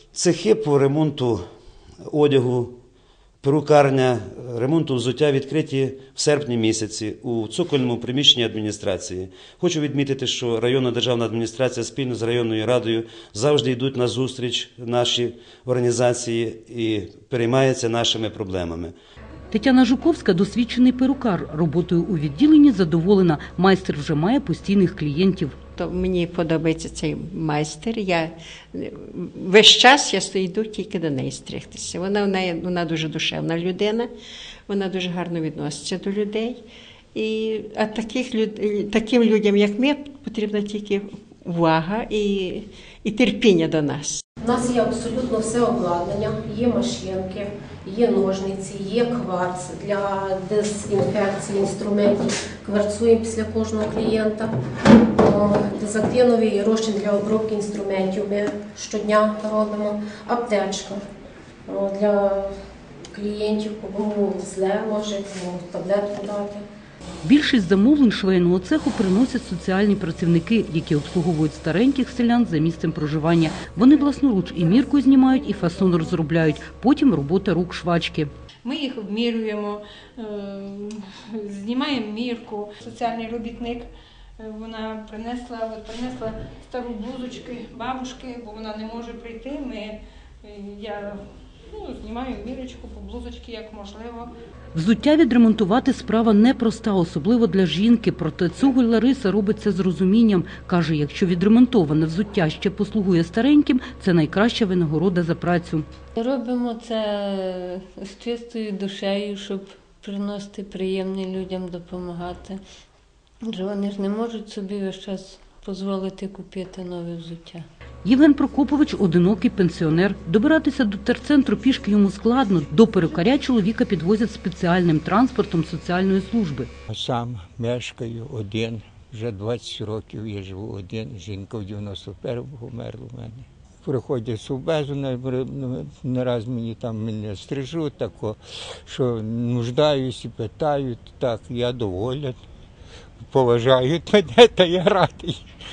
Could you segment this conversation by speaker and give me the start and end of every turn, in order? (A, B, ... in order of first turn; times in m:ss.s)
0:00.1-0:01.4 A
0:02.1-0:02.8 A
0:03.4-0:18.9 A
0:19.5-0:25.6 B
0:25.8-0:34.1 C
0:34.7-0:44.2 C
0:44.4-0:54.5 D
0:55.2-1:01.0 D
1:01.7-1:02.5 D
1:03.1-1:06.6 D
1:07.2-1:18.3 B
1:18.6-1:23.8 E
1:24.4-1:31.2 E
1:31.7-1:34.3 E
1:34.7-1:45.8 B
1:46.2-1:52.6 F
1:53.4-1:57.6 F
1:58.0-2:06.7 B
2:06.9-2:22.4 G
2:23.2-2:25.4 G